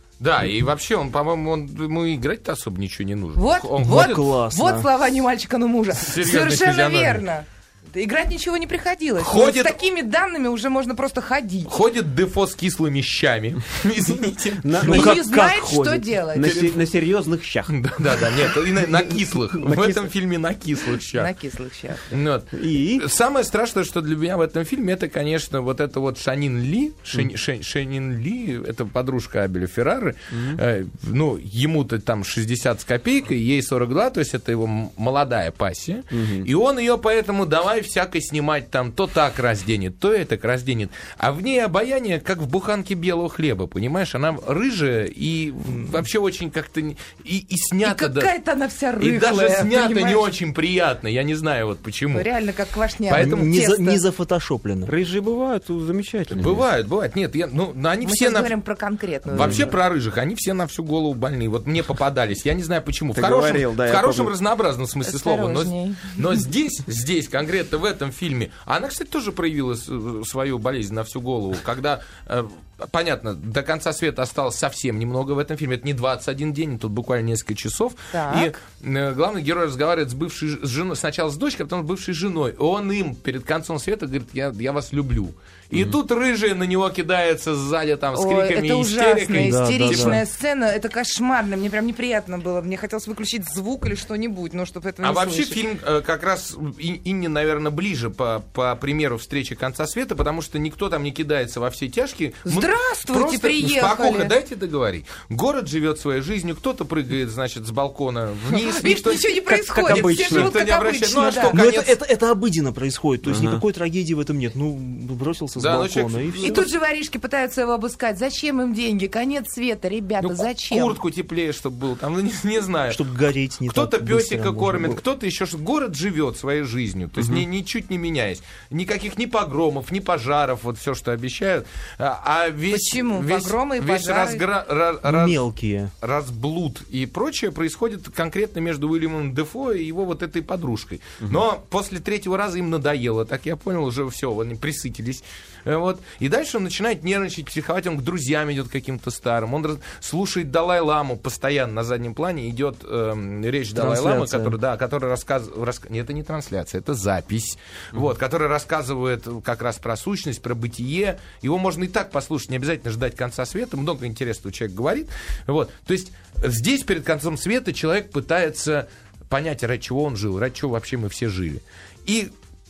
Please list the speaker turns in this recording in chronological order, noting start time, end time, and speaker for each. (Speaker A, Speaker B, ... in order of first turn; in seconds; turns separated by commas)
Speaker A: 0.2-4.2, Speaker B: 3.4-11.7, Speaker C: 3.8-4.9, Speaker A: 6.0-7.3, Speaker A: 9.2-9.8, Speaker A: 11.7-15.1, Speaker D: 14.6-15.2, Speaker C: 14.8-16.2, Speaker B: 14.8-16.8, Speaker D: 16.3-17.8, Speaker A: 17.7-21.3, Speaker D: 19.6-20.1, Speaker B: 21.1-22.1, Speaker A: 22.1-48.3, Speaker D: 22.5-23.1, Speaker D: 30.3-30.6, Speaker D: 36.1-36.5, Speaker B: 47.8-50.3, Speaker A: 49.0-52.3, Speaker B: 52.1-54.0, Speaker A: 53.1-53.5, Speaker C: 53.1-54.9, Speaker D: 54.9-56.7, Speaker A: 56.3-58.5, Speaker B: 58.0-59.7, Speaker A: 59.3-90.2, Speaker D: 63.1-64.3, Speaker B: 65.0-66.2, Speaker B: 78.1-78.6, Speaker B: 88.1-95.6, Speaker C: 89.3-90.2, Speaker A: 95.0-112.0, Speaker B: 102.5-104.3, Speaker B: 108.5-111.6, Speaker D: 109.5-110.5, Speaker C: 111.5-116.7, Speaker D: 113.2-113.6, Speaker A: 115.6-116.7, Speaker B: 116.4-121.0, Speaker A: 120.2-123.0, Speaker C: 122.9-125.0, Speaker A: 123.7-135.4, Speaker B: 132.7-134.4, Speaker C: 135.0-135.9, Speaker A: 136.0-172.3, Speaker C: 153.8-154.6